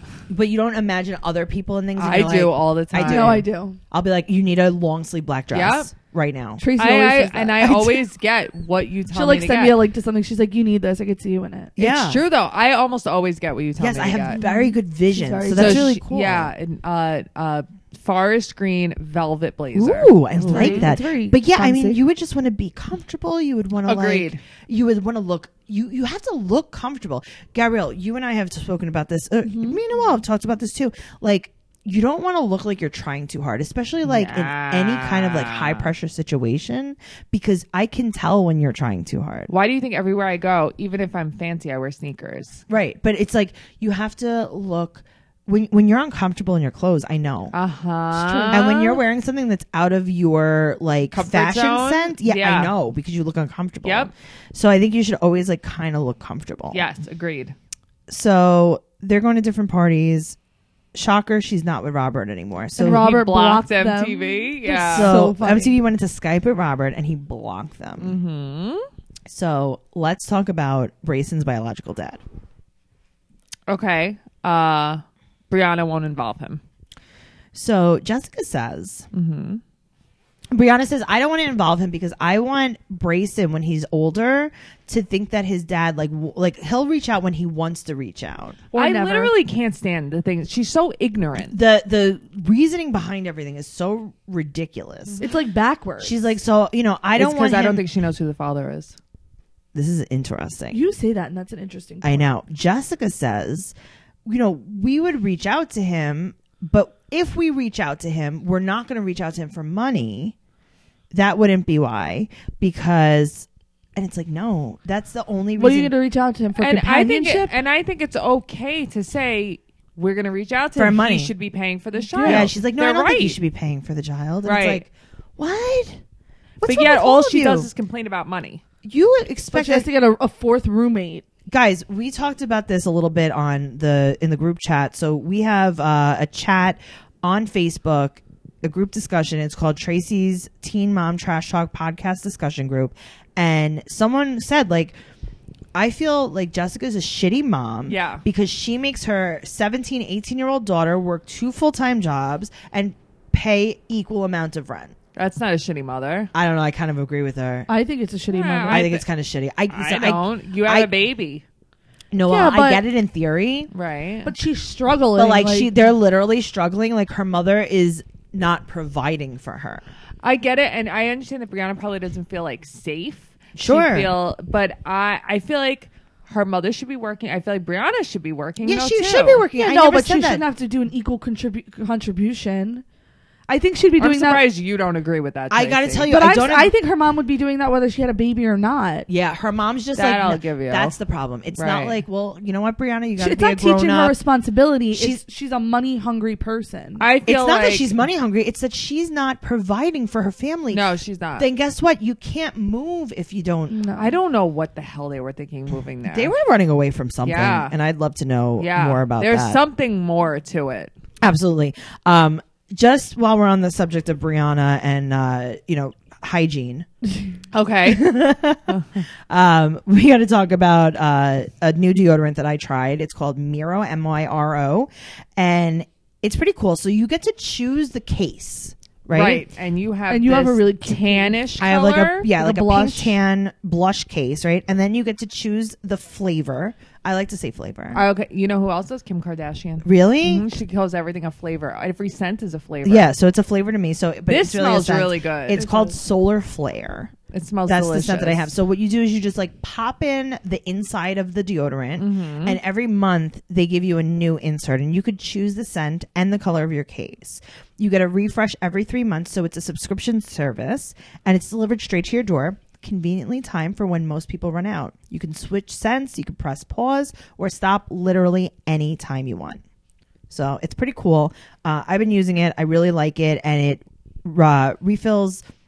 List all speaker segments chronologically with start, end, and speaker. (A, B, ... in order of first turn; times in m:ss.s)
0:00.3-0:06.6 A
0:02.0-0:03.4 B
0:03.0-0:03.8 C
0:05.5-0:05.9 B
0:06.6-0:07.9 C
0:06.8-0:09.8 B
0:07.6-0:07.9 A
0:09.1-0:11.7 C
0:11.8-0:12.2 A
0:11.8-0:14.4 B
0:13.8-0:16.5 A
0:14.4-0:16.0 C
0:15.5-0:20.9 B
0:19.7-0:39.5 A
0:20.4-0:22.0 C
0:23.8-0:24.4 B
0:29.4-0:29.8 C
0:34.0-0:35.9 B
0:39.5-0:42.6 B
0:42.7-0:47.5 A
0:47.5-0:49.0 B
0:48.1-0:48.9 C
0:48.5-0:56.8 A
0:51.1-0:52.7 B
0:53.8-0:54.1 B
0:56.7-0:57.5 B
0:58.1-1:00.4 A
1:00.9-1:03.2 A
1:02.8-1:05.7 C
1:02.8-1:05.2 B
1:04.9-1:08.2 A
1:08.0-1:08.9 B
1:09.3-1:12.2 A
1:13.7-1:16.6 B
1:17.5-1:19.1 A
1:19.1-1:19.6 B
1:20.5-1:28.6 A
1:28.7-1:29.3 C
1:28.7-1:31.6 B
1:31.4-1:35.2 A
1:35.2-1:36.2 C
1:36.0-1:37.8 A
1:37.2-1:39.0 B
1:39.7-1:40.8 A
1:40.7-1:42.3 C
1:42.0-1:43.7 A
1:44.2-1:50.3 A
1:51.1-1:55.9 A
1:55.6-1:57.5 C
1:56.6-2:03.4 B
2:00.7-2:01.3 A
2:02.0-2:02.5 C
2:02.2-2:06.0 A
2:04.4-2:04.8 B
2:06.6-2:07.7 A
2:06.6-2:08.6 B
2:08.8-2:09.9 A
2:09.5-2:11.2 C
2:11.5-2:25.0 A
2:25.7-2:34.9 A
2:27.9-2:28.2 B
2:35.1-2:36.3 B
2:36.3-2:37.7 A
2:37.7-2:38.9 C
2:38.3-2:39.0 B
2:38.7-2:40.9 A
2:39.7-2:41.4 B
2:42.1-2:43.7 A
2:42.2-2:42.8 C
2:43.7-2:44.3 B
2:44.2-2:45.9 C
2:45.2-2:49.8 A
2:50.2-2:59.5 B
2:53.6-2:54.1 A
2:58.6-3:00.4 A
2:59.6-3:02.8 C
3:03.5-3:04.4 C
3:04.0-3:06.1 B
3:05.5-3:06.7 A
3:06.1-3:09.1 C
3:09.1-3:14.2 A
3:10.0-3:11.0 B
3:11.6-3:12.0 B
3:13.2-3:17.0 C
3:14.9-3:15.2 A
3:17.0-3:18.0 B
3:17.2-3:20.8 A
3:20.7-3:21.5 B
3:21.4-3:23.8 A
3:23.7-3:24.2 C
3:24.0-3:26.3 B
3:26.1-3:29.6 A
3:27.2-3:27.7 B
3:28.6-3:30.9 B
3:31.2-3:36.9 A
3:37.5-3:38.1 B
3:37.8-3:38.8 A
3:39.3-3:49.4 A
3:49.1-3:52.3 B
3:50.1-3:51.4 C
3:51.6-3:58.0 A
3:52.3-3:53.2 C
3:57.9-4:03.1 B
3:59.8-4:00.5 A
4:02.8-4:07.1 A
4:04.3-4:05.7 B
4:05.6-4:06.0 C
4:07.3-4:08.5 B
4:07.7-4:29.6 A
4:12.0-4:12.6 B
4:30.3-4:35.4 A